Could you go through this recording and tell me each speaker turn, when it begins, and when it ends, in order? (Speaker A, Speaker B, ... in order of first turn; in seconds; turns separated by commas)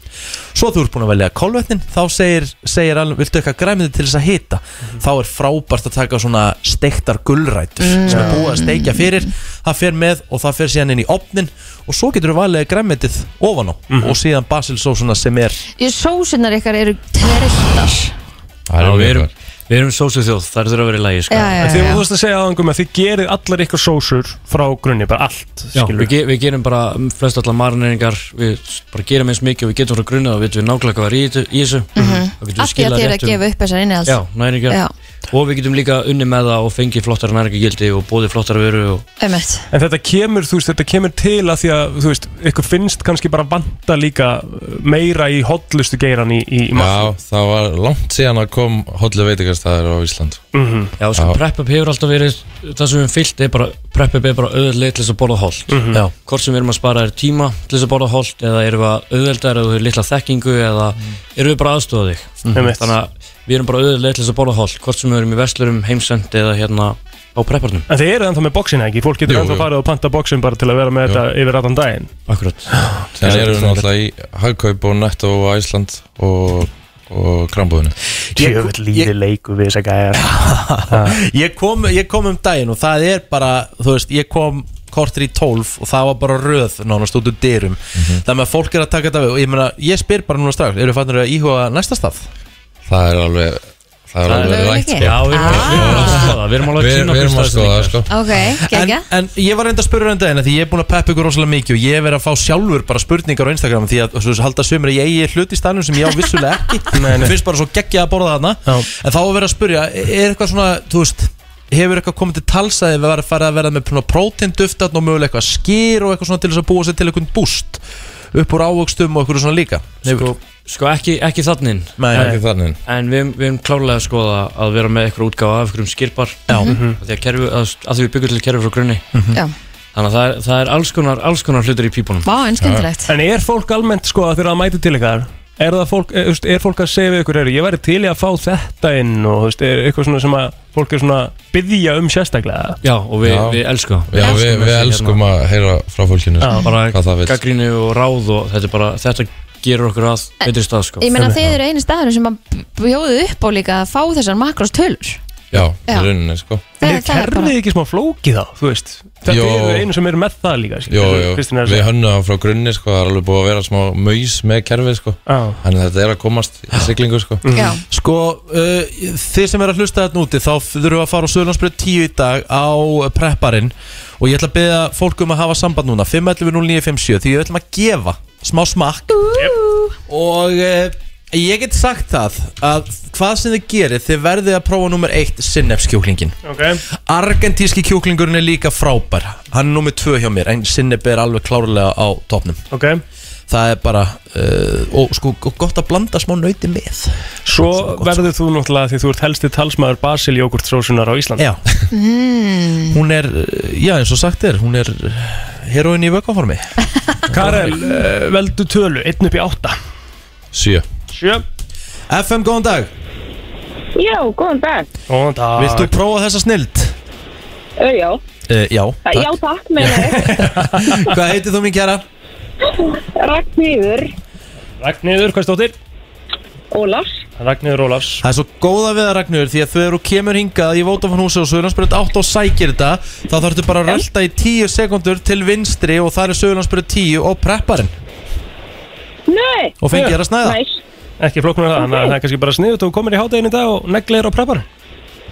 Speaker A: 0.6-15.6, Speaker B: 7.8-9.2, Speaker C: 8.1-8.4, Speaker C: 13.9-14.2, Speaker B: 15.8-18.1, Speaker D: 18.7-19.3, Speaker E: 18.8-21.9, Speaker B: 21.3-22.0, Speaker C: 21.6-26.1, Speaker E: 25.7-33.4, Speaker B: 31.9-34.9, Speaker E: 34.0-39.0, Speaker B: 39.2-39.6, Speaker C: 39.7-47.1, Speaker D: 46.7-50.4, Speaker C: 50.5-50.9, Speaker E: 51.0-67.8, Speaker C: 55.7-56.0, Speaker C: 62.5-62.9, Speaker C: 67.9-72.1, Speaker E: 72.3-73.9, Speaker C: 72.7-73.0, Speaker D: 73.2-77.9, Speaker A: 78.3-79.1, Speaker C: 78.3-81.2, Speaker A: 80.1-92.2, Speaker D: 88.0-88.2, Speaker D: 92.8-98.1, Speaker E: 94.2-98.1, Speaker B: 94.3-96.3, Speaker B: 98.1-99.0, Speaker A: 98.6-117.8, Speaker C: 106.9-107.3, Speaker A: 118.3-120.3, Speaker E: 120.0-129.1, Speaker A: 122.0-122.3, Speaker C: 122.1-122.4, Speaker D: 122.2-122.8, Speaker A: 126.5-126.7, Speaker B: 126.5-126.8, Speaker C: 126.7-127.0, Speaker A: 129.1-129.4, Speaker E: 129.9-132.3, Speaker B: 132.2-133.1, Speaker D: 132.6-132.9, Speaker C: 133.1-142.8, Speaker E: 142.8-145.2, Speaker D: 143.2-143.6, Speaker D: 144.1-147.3, Speaker C: 146.4-146.7, Speaker E: 146.6-151.1, Speaker B: 150.4-155.2, Speaker C: 151.2-151.4, Speaker D: 155.5-156.6, Speaker B: 156.8-157.5, Speaker C: 156.8-161.9, Speaker D: 159.2-159.9, Speaker D: 160.9-167.4, Speaker C: 165.2-165.6, Speaker C: 167.4-167.8, Speaker B: 167.6-167.8, Speaker A: 167.9-179.3, Speaker B: 179.2-179.9, Speaker A: 180.1-186.4, Speaker C: 186.4-186.8, Speaker A: 186.9-192.6, Speaker C: 192.7-193.0, Speaker A: 193.5-198.3, Speaker C: 197.5-201.4, Speaker B: 201.9-202.9, Speaker A: 202.9-206.7, Speaker A: 207.3-207.7, Speaker C: 207.3-209.8, Speaker D: 210.5-210.8, Speaker A: 210.6-210.8, Speaker C: 211.1-211.4, Speaker A: 212.1-212.9, Speaker F: 213.9-214.9, Speaker C: 215.1-215.9, Speaker A: 215.6-216.9, Speaker F: 217.8-218.2, Speaker A: 218.5-219.3, Speaker F: 219.1-220.2, Speaker C: 219.9-221.1, Speaker A: 220.1-222.0, Speaker F: 223.1-224.1, Speaker C: 224.8-225.8, Speaker F: 226.7-227.1, Speaker C: 227.4-228.2, Speaker A: 228.2-237.9, Speaker F: 239.3-239.8, Speaker A: 239.8-240.6, Speaker F: 240.4-240.8, Speaker C: 241.2-244.7, Speaker F: 241.8-242.1